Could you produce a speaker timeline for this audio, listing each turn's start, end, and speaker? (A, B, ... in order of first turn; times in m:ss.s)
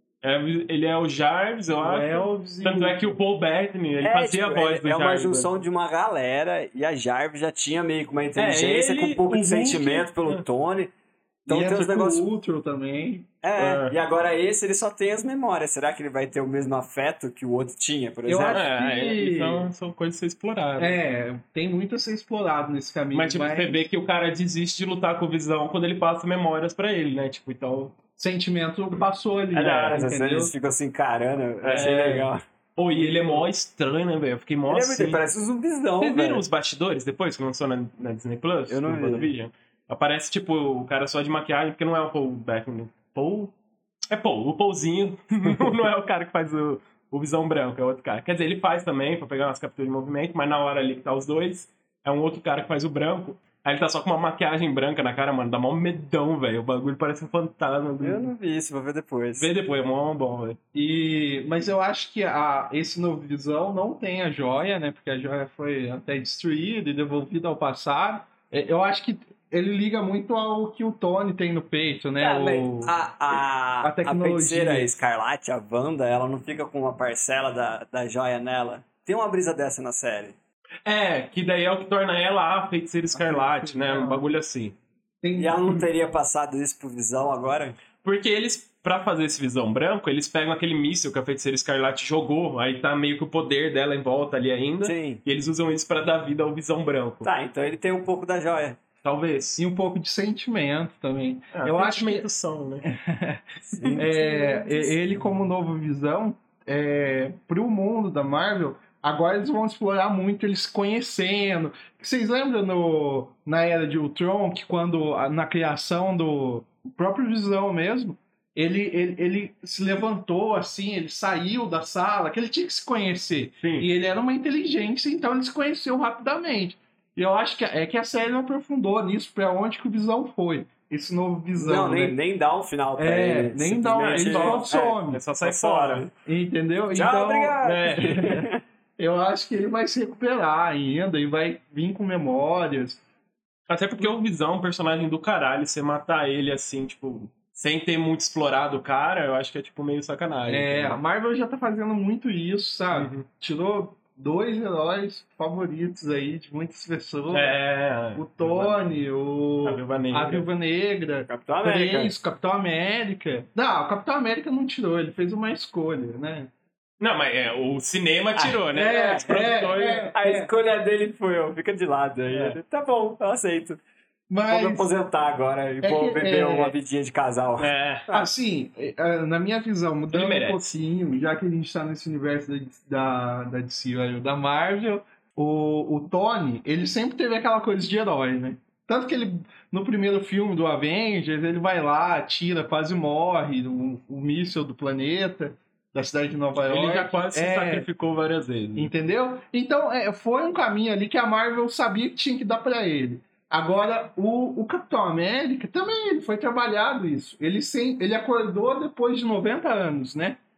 0:00.2-0:05.5 A
0:01.8-0:03.1 B
0:04.0-0:10.9 C
0:08.4-0:10.4 A
0:11.4-0:12.2 C
0:11.4-0:13.3 B
0:13.4-0:18.6 C
0:13.6-0:13.9 A
0:18.2-0:19.7 B
0:18.5-0:21.0 A
0:20.8-0:23.9 B
0:23.1-0:28.0 A
0:28.2-0:30.5 B
0:29.5-0:32.4 C
0:31.6-0:35.2 A
0:33.0-0:33.4 C
0:34.7-0:36.4 C
0:36.0-0:43.5 A
0:38.7-0:39.3 C
0:44.1-0:58.3 A
0:58.0-0:59.5 C
0:59.4-1:00.6 A
1:00.7-1:12.9 B
1:12.2-1:20.4 C
1:13.8-1:14.9 B
1:20.8-1:24.7 A
1:23.8-1:24.2 B
1:25.2-1:25.8 B
1:25.4-1:27.8 C
1:28.0-1:37.2 A
1:34.8-1:35.2 C
1:37.2-1:38.8 C
1:39.0-1:39.6 A
1:39.6-1:42.3 B
1:41.5-1:42.9 A
1:42.8-1:43.4 B
1:43.7-1:45.0 C
1:43.8-1:44.0 A
1:44.0-2:12.2 B
2:03.6-2:03.9 A
2:11.5-2:16.1 C
2:13.0-2:15.2 B
2:14.0-2:16.1 A
2:16.2-2:18.4 B
2:16.9-2:18.6 C
2:17.6-2:18.3 A
2:19.0-2:23.0 B
2:23.7-2:31.0 A
2:30.5-2:37.6 B
2:32.9-2:33.2 A
2:37.3-2:38.8 A
2:38.1-2:46.5 B
2:39.6-2:40.5 A
2:41.3-2:42.1 C
2:47.0-2:50.1 A
2:48.4-2:49.2 C
2:48.7-2:50.5 B
2:50.1-2:53.8 C
2:52.3-2:52.6 A
2:54.3-2:54.9 B
2:54.5-2:57.7 C
2:55.8-2:56.7 B
2:57.6-2:58.1 A
2:58.1-3:17.9 B
3:00.1-3:00.6 A
3:16.7-3:18.9 A
3:18.8-3:30.4 B